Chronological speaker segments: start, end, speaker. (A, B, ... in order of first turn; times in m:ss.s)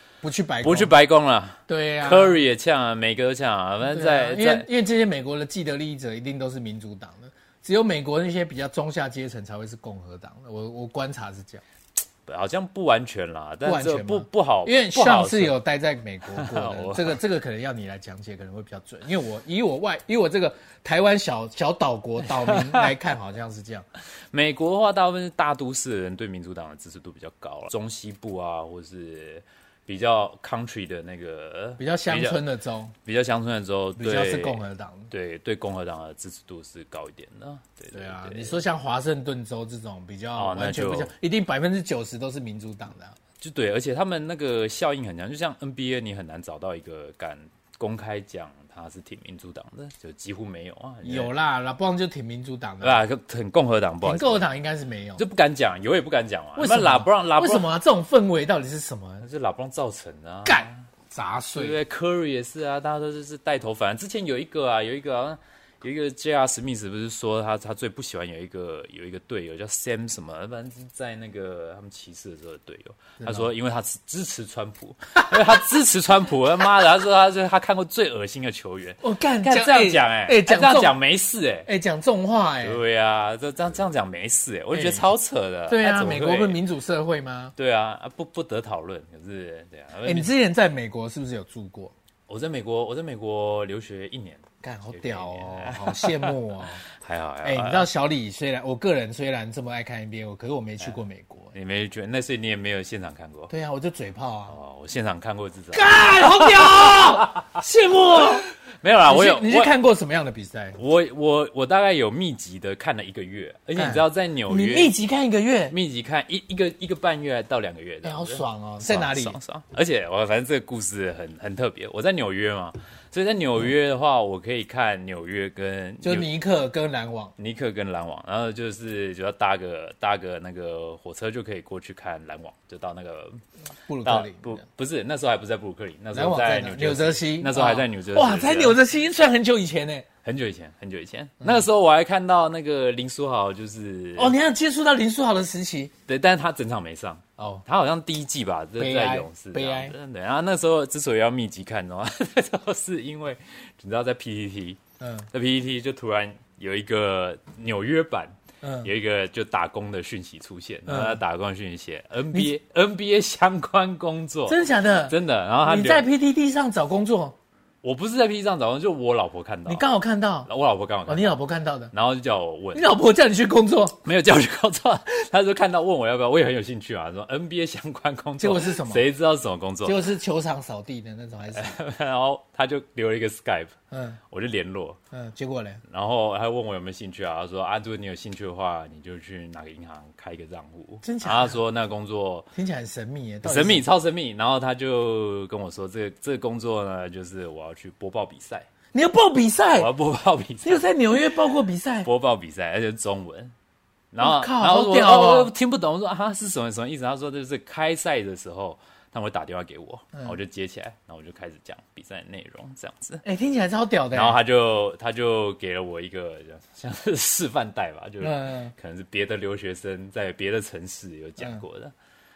0:00.2-0:00.9 A
0:00.6-0:04.7 B
0:01.7-0:02.4 A
0:03.8-0:11.6 A
0:12.3-0:15.6 B
0:13.6-0:23.8 A
0:16.3-0:17.2 B
0:22.5-0:22.9 B
0:24.3-0:32.4 B
0:31.8-0:33.0 A
0:33.0-0:38.6 B
0:34.0-0:35.1 A
0:37.9-0:43.2 A
0:40.4-0:41.1 B
0:43.4-0:51.3 B
0:51.0-0:53.0 A
0:52.8-0:54.5 B
0:54.0-0:55.2 A
0:55.2-0:57.7 B
0:56.6-0:59.3 A
0:59.2-1:00.8 B
1:00.4-1:01.8 A
1:01.6-1:21.7 B
1:13.2-1:13.5 A
1:19.0-1:21.0 A
1:21.6-1:22.8 A
1:22.6-1:26.6 B
1:24.7-1:25.1 A
1:25.7-1:27.5 A
1:27.6-1:30.3 B
1:30.0-1:31.9 A
1:32.3-1:36.4 B
1:34.6-1:36.8 A
1:36.9-1:37.9 B
1:37.4-1:41.5 A
1:41.5-1:43.5 B
1:43.5-1:44.6 A
1:44.5-1:47.6 B
1:45.7-1:48.5 A
1:48.8-1:49.7 B
1:49.0-1:50.8 A
1:50.8-1:55.0 B
1:53.8-1:55.8 A
1:55.7-2:06.3 B
1:58.0-1:59.4 A
2:06.0-2:07.3 A
2:07.4-2:13.4 B
2:13.9-2:14.6 A
2:14.0-2:18.8 B
2:16.1-2:20.1 A
2:20.2-2:24.4 B
2:21.4-2:21.7 A
2:24.2-2:25.9 A
2:26.1-2:34.8 B
2:27.4-2:27.6 A
2:28.8-2:29.9 A
2:35.0-2:35.3 A
2:35.3-2:46.1 B
2:38.6-2:38.9 A
2:40.9-2:41.2 A
2:44.5-2:47.4 A
2:47.8-2:49.9 B
2:49.7-2:50.5 A
2:50.5-2:51.4 B
2:51.1-2:51.9 A
2:51.9-2:52.9 B
2:52.7-2:54.0 A
2:54.0-3:00.1 B
2:58.4-2:59.1 A
2:59.8-3:01.7 A
3:01.5-3:03.7 B
3:03.9-3:04.2 A
3:04.3-3:05.0 B
3:05.1-3:05.8 A
3:05.9-3:12.5 B
3:11.0-3:11.6 A
3:12.6-3:13.9 A
3:13.4-3:18.7 B
3:18.9-3:19.9 A
3:19.8-3:20.9 B
3:20.6-3:22.1 A
3:22.0-3:23.5 B
3:24.1-3:33.2 B
3:24.2-3:25.5 A
3:33.2-3:34.4 A
3:34.1-3:41.9 B
3:38.2-3:38.7 A